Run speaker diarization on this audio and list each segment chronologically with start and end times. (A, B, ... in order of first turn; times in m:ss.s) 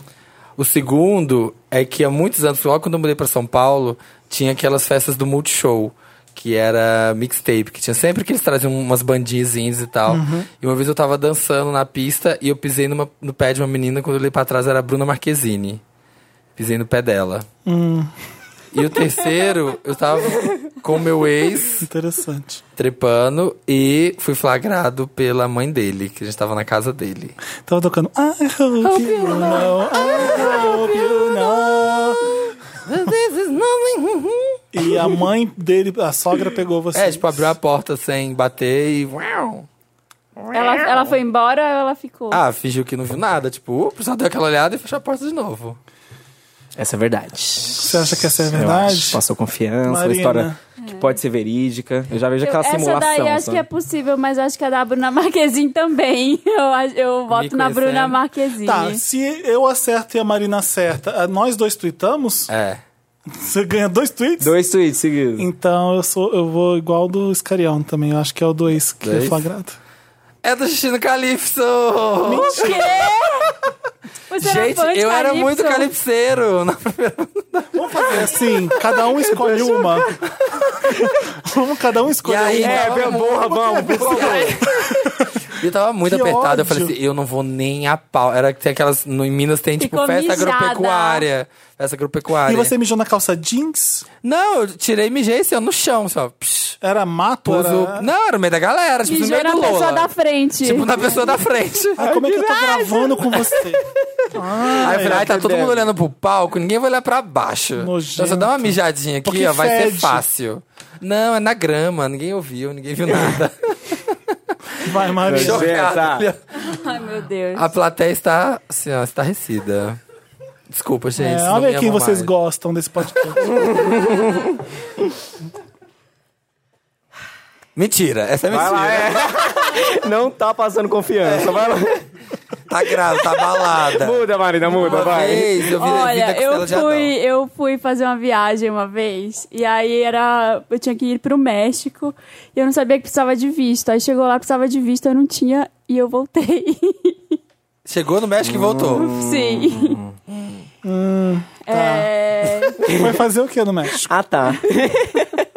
0:00.6-0:15.8 A
0:10.1-0:10.5 B
0:16.6-0:17.5 A
0:17.7-0:18.1 B
0:18.7-0:21.9 A
0:21.8-0:22.6 B
0:22.8-0:27.4 A
0:27.7-0:32.4 B
0:28.8-0:34.6 A
0:34.7-0:37.6 B
0:36.9-0:39.7 A
0:40.5-0:42.4 C
0:42.3-0:45.8 A
0:46.8-0:53.6 D
0:47.8-0:49.2 B
0:49.9-0:50.6 B
0:50.8-0:51.1 C
0:52.4-0:59.0 C
0:57.3-0:58.2 A
0:58.6-1:02.5 B
1:02.5-1:02.8 A
1:03.3-1:04.5 B
1:04.4-1:05.5 D
1:05.4-1:09.8 B
1:09.0-1:09.4 A
1:10.4-1:12.9 A
1:12.2-1:13.1 B
1:12.3-1:13.5 C
1:14.3-1:15.9 C
1:14.4-1:17.7 A
1:17.7-1:20.1 B
1:19.2-1:20.2 D
1:20.7-1:21.1 D
1:20.9-1:25.4 B
1:22.2-1:24.7 A
1:22.6-1:24.7 D
1:25.5-1:32.7 A
1:26.0-1:26.9 B
1:29.8-1:31.3 C
1:32.4-1:34.1 B
1:34.2-1:36.8 A
1:36.8-1:38.1 B
1:37.5-1:40.1 A
1:39.0-1:41.2 C
1:40.6-1:42.0 A
1:42.0-1:45.4 B
1:42.0-1:43.4 D
1:44.7-1:45.8 D
1:44.8-1:54.2 A
1:47.8-1:50.2 B
1:54.8-1:55.9 B
1:55.2-1:56.4 A
1:55.3-1:56.3 D
1:56.6-1:57.6 C
1:57.6-2:00.0 A
2:00.7-2:02.3 A
2:01.2-2:03.4 B
2:03.4-2:04.6 D
2:07.8-2:09.2 A
2:08.5-2:12.0 D
2:11.2-2:11.6 A
2:12.7-2:17.1 A
2:13.4-2:15.6 D
2:15.6-2:27.4 C
2:27.9-2:29.1 A
2:28.4-2:30.2 D
2:29.0-2:30.0 C
2:30.8-2:32.1 B
2:31.7-2:33.0 C
2:32.8-2:33.1 D
2:32.8-2:34.1 B
2:34.1-2:35.3 D